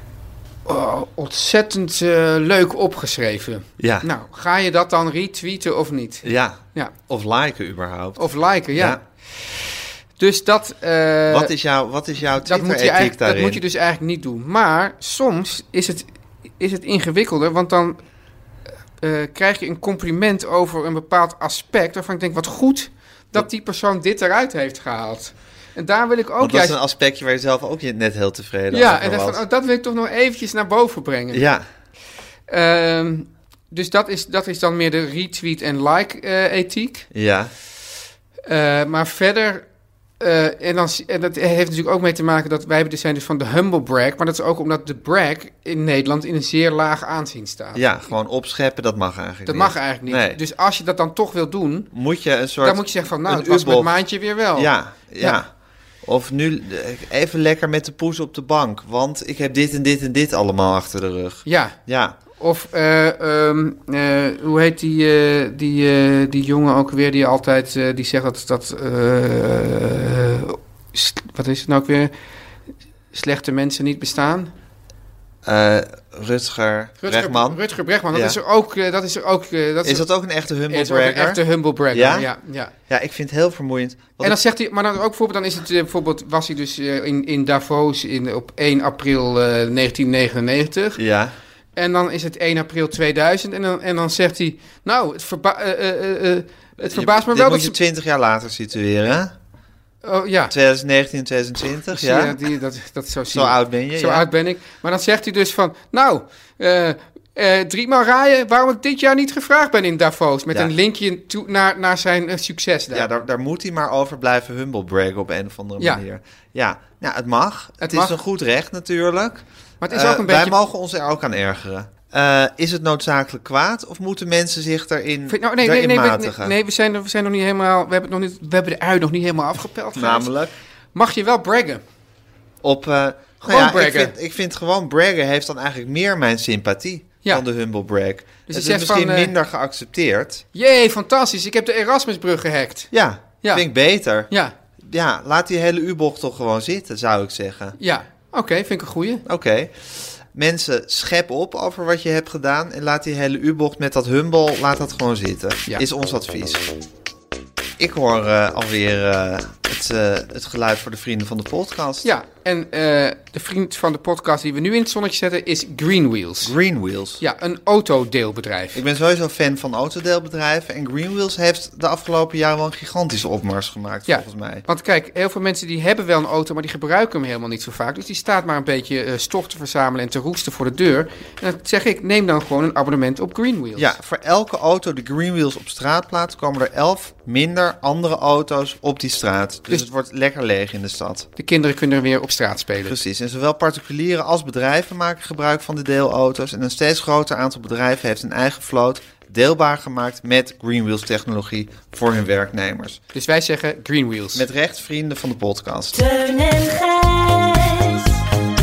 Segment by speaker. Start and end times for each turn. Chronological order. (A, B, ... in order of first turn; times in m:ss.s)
0:00.7-0:06.9 A
0:03.8-0:04.1 B
0:06.2-0:09.0 B
0:08.2-0:09.0 A
0:10.2-0:11.5 A
0:11.3-0:13.6 B
0:12.4-0:16.1 A
0:16.6-0:18.0 A
0:19.0-0:26.8 A
0:26.4-0:29.4 B
0:28.7-0:31.4 A
0:31.3-0:31.6 B
0:32.5-0:37.1 A
0:37.1-0:37.5 B
0:38.5-0:39.7 A
0:40.2-0:47.8 A
0:47.8-0:50.4 B
0:49.5-0:51.9 A
0:51.9-0:53.9 B
0:52.6-0:55.4 A
0:54.6-0:55.5 B
0:56.0-1:02.2 B
1:01.5-1:01.8 A
1:02.3-1:12.1 A
1:13.1-1:14.5 A
1:15.4-1:17.6 B
1:17.0-1:20.1 A
1:18.1-1:18.4 B
1:19.8-1:22.3 B
1:20.7-1:22.7 A
1:22.9-1:24.4 B
1:24.2-1:31.0 A
1:31.0-1:31.4 B
1:31.8-1:37.8 A
1:36.8-1:39.3 B
1:40.0-1:40.5 A
1:40.5-1:42.4 B
1:41.9-1:53.1 A
1:43.3-1:44.2 B
1:52.9-2:06.5 B
1:55.8-1:56.0 A
1:57.8-1:58.2 A
1:59.8-2:00.6 A
2:05.3-2:10.3 A
2:10.0-2:10.5 B
2:11.0-2:11.8 A
2:12.6-2:20.4 B
2:13.5-2:14.1 A
2:18.5-2:19.3 A
2:20.5-2:22.9 A
2:22.9-2:27.8 B
2:27.8-2:29.2 A
2:29.2-2:36.7 B
2:37.8-2:42.1 B
2:42.0-2:46.5 A
2:46.4-2:47.2 B
2:47.2-2:48.8 A
2:48.7-2:54.6 B
2:54.1-3:03.9 A
3:03.8-3:11.3 B
3:11.4-3:13.0 A
3:12.8-3:23.0 B
3:23.1-3:24.5 A
3:24.4-3:26.0 B
3:25.9-3:28.2 C